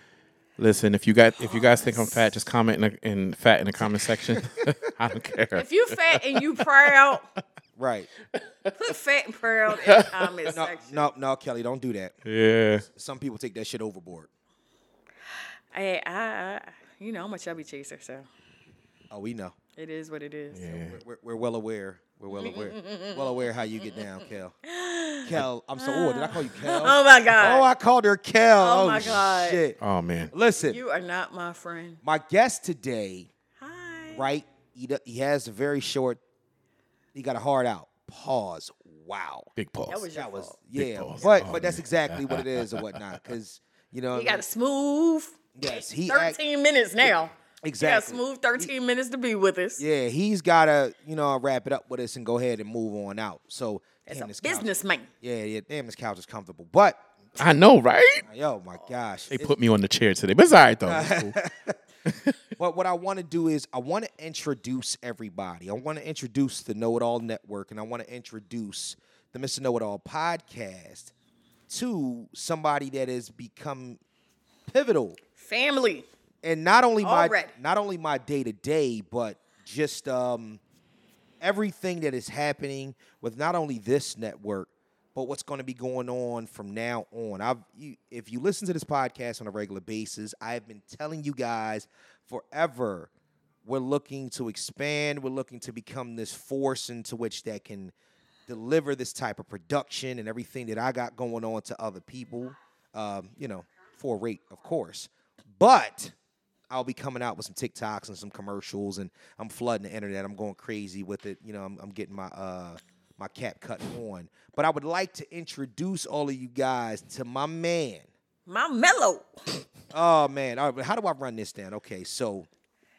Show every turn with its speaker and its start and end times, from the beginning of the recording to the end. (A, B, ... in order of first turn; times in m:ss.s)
0:00.6-0:06.6 A
0:01.4-0:02.3 B
0:04.4-0:04.7 C
0:05.5-0:07.3 B
0:07.8-0:08.1 C
0:08.4-0:08.9 A
0:08.8-0:11.1 B
0:09.7-0:10.3 A
0:10.5-0:12.2 C
0:12.2-0:12.8 A
0:12.9-0:14.3 C
0:15.7-0:18.3 B
0:19.1-0:19.6 C
0:19.8-0:20.7 B
0:20.5-0:21.0 A
0:20.7-0:24.5 C
0:22.3-0:24.1 B
0:24.6-0:27.7 B
0:25.2-0:29.8 C
0:28.6-0:29.6 B
0:29.8-0:30.3 A
0:30.3-0:30.8 C
0:30.6-0:32.0 B
0:32.0-0:33.3 C
0:33.6-0:34.2 B
0:34.1-0:36.2 C
0:37.1-0:39.5 C
0:39.6-0:40.1 A
0:39.9-0:40.6 B
0:40.1-0:44.4 C
0:40.7-0:43.3 A
0:44.1-0:49.8 B
0:45.6-0:46.4 C
0:47.6-0:48.7 C
0:49.8-0:54.7 C
0:54.1-0:55.1 B
0:55.2-0:57.0 C
0:57.4-0:58.2 A
0:58.2-0:59.5 C
0:59.3-1:01.4 A
1:00.8-1:01.8 C
1:02.0-1:02.4 A
1:02.6-1:11.1 C
1:11.7-1:14.0 C
1:14.7-1:15.2 C
1:15.4-1:16.1 B
1:16.4-1:20.6 C
1:17.0-1:17.5 B
1:21.4-1:33.1 C
1:33.6-1:37.9 C
1:38.5-1:46.1 C
1:46.7-1:58.1 C
1:58.5-1:59.3 B
1:59.9-2:02.5 C